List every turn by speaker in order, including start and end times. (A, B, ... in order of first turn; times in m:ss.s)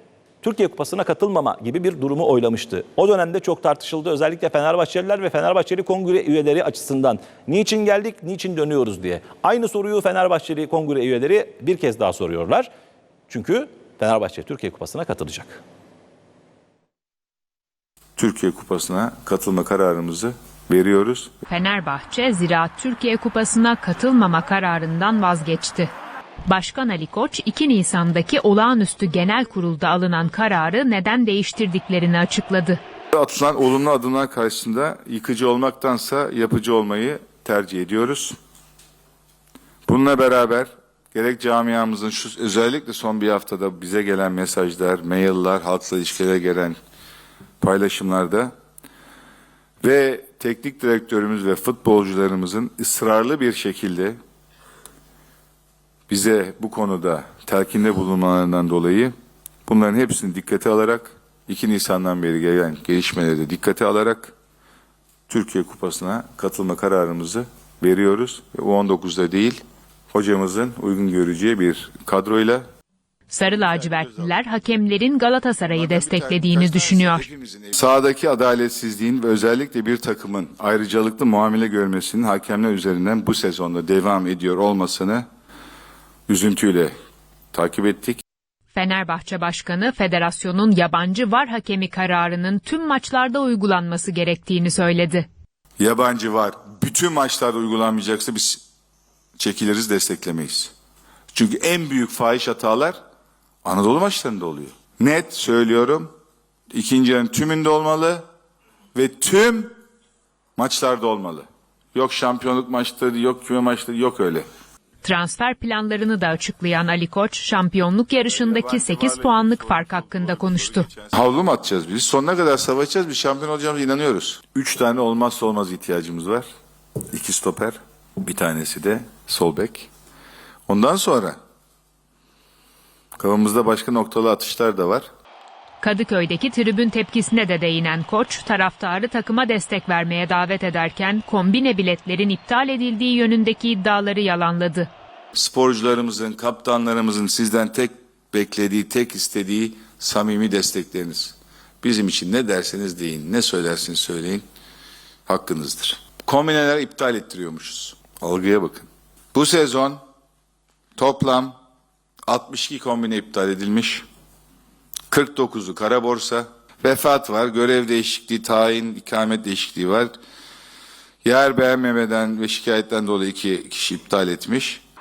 0:00.4-0:12.7 A
0:13.3-0:15.6 A
0:18.2-0:21.3 B
0:21.5-0:25.9 C
0:26.5-0:32.8 C
0:33.1-0:38.4 B
0:39.9-0:46.8 B
0:47.6-0:48.5 B
0:49.8-0:54.2 B
0:56.1-0:59.1 B
0:59.7-1:04.3 B
1:05.3-1:09.6 B
1:10.1-1:12.6 B
1:13.3-1:17.3 C
1:15.8-1:25.2 B
1:26.3-1:26.9 B
1:27.5-1:28.2 B
1:28.7-1:35.3 C
1:35.8-1:38.6 B
1:39.4-1:40.7 B
1:41.3-1:43.0 B
1:43.6-1:46.1 B
1:46.7-1:48.2 B
1:48.9-1:49.7 B
1:50.6-1:54.4 B
1:55.0-2:00.9 C
1:58.3-2:06.5 B
2:07.1-2:09.9 B
2:10.7-2:11.4 B
2:13.2-2:15.0 B
2:15.8-2:24.9 C
2:25.3-2:34.4 B
2:35.3-2:40.0 B
2:41.0-2:41.6 B
2:42.3-2:44.1 B
2:45.1-2:50.1 B
2:51.2-2:54.8 B